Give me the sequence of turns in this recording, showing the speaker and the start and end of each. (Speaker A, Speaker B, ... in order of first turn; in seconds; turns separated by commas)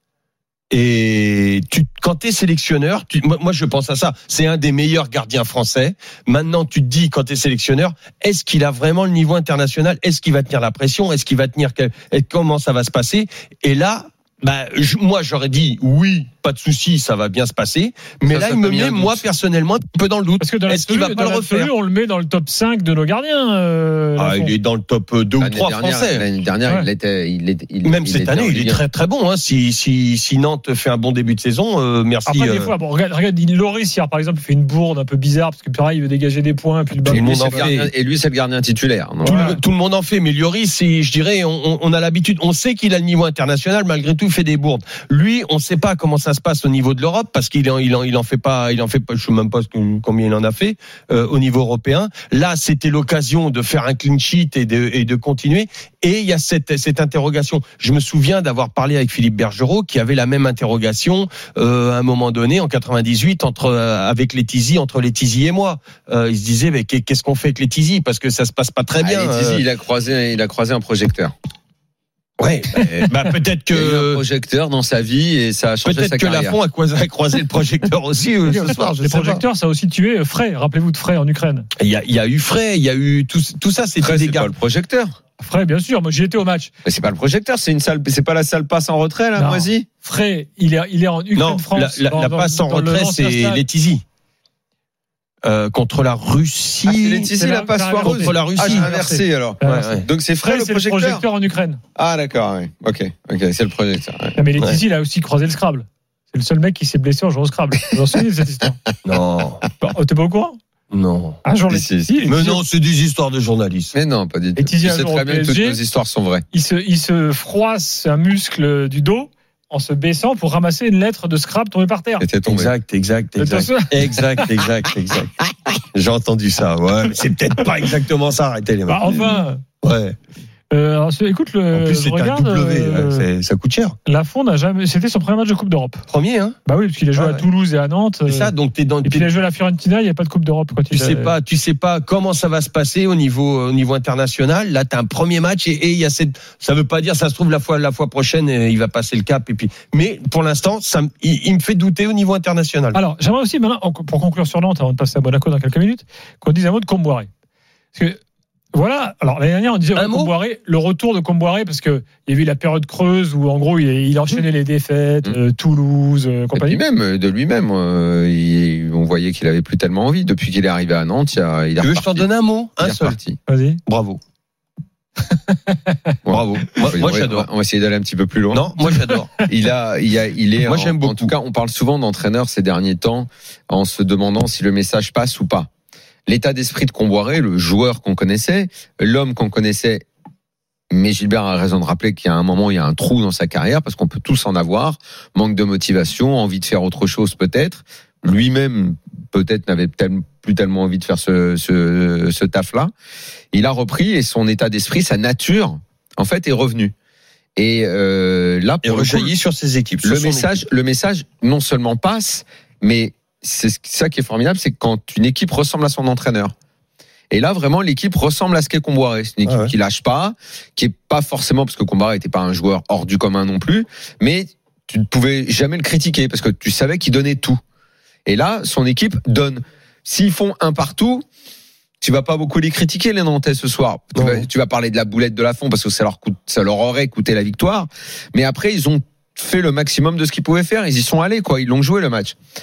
Speaker A: 0.7-21.7, Speaker B: 18.2-19.2, Speaker C: 20.4-24.5, Speaker A: 24.2-26.3, Speaker B: 25.4-28.8, Speaker A: 27.8-32.7, Speaker C: 32.3-37.7, Speaker B: 37.0-39.6, Speaker A: 37.1-37.9, Speaker A: 39.2-69.6, Speaker C: 39.2-39.6, Speaker B: 69.0-71.3, Speaker A: 72.4-74.2, Speaker B: 72.8-73.1, Speaker B: 73.7-76.6, Speaker A: 75.8-79.4, Speaker C: 78.5-81.7, Speaker A: 81.8-84.5, Speaker B: 84.0-85.2, Speaker C: 85.4-86.7, Speaker B: 86.8-89.9, Speaker C: 89.4-93.7, Speaker A: 91.4-94.0, Speaker A: 95.4-97.3, Speaker B: 96.9-101.2, Speaker C: 97.3-99.9, Speaker A: 98.0-98.9, Speaker A: 99.6-100.1, Speaker C: 100.4-101.8, Speaker B: 102.0-104.4, Speaker C: 104.3-108.8, Speaker A: 109.0-109.6, Speaker C: 109.8-110.6, Speaker A: 110.9-111.4, Speaker C: 111.4-112.6, Speaker B: 111.7-112.4, Speaker A: 112.3-114.0, Speaker B: 113.9-116.5, Speaker C: 114.6-115.8, Speaker C: 116.5-122.3, Speaker B: 122.2-122.7, Speaker A: 122.5-125.4, Speaker C: 123.4-124.5, Speaker A: 125.9-130.2, Speaker C: 128.9-129.6, Speaker C: 130.7-133.3, Speaker A: 131.7-134.0, Speaker C: 134.1-136.1, Speaker A: 136.1-136.6, Speaker C: 136.7-141.3, Speaker A: 137.2-137.4, Speaker A: 138.3-139.3, Speaker A: 140.9-153.0, Speaker C: 152.9-157.3, Speaker C: 157.9-158.2, Speaker C: 158.7-166.8, Speaker A: 159.9-160.3, Speaker B: 166.6-172.3, Speaker A: 171.8-173.2, Speaker B: 172.8-173.4, Speaker C: 173.5-173.8, Speaker A: 173.9-174.2, Speaker C: 175.5-176.0, Speaker B: 176.3-178.8, Speaker A: 176.3-177.5, Speaker A: 178.5-179.3, Speaker B: 179.4-185.7, Speaker A: 180.6-181.3, Speaker B: 186.3-190.1, Speaker B: 190.9-202.9, Speaker B: 203.5-206.9, Speaker B: 207.6-209.3, Speaker A: 208.8-210.6, Speaker B: 210.0-216.5, Speaker B: 217.3-227.6, Speaker A: 219.5-219.7, Speaker B: 228.3-231.2, Speaker B: 232.0-242.4, Speaker A: 234.2-234.5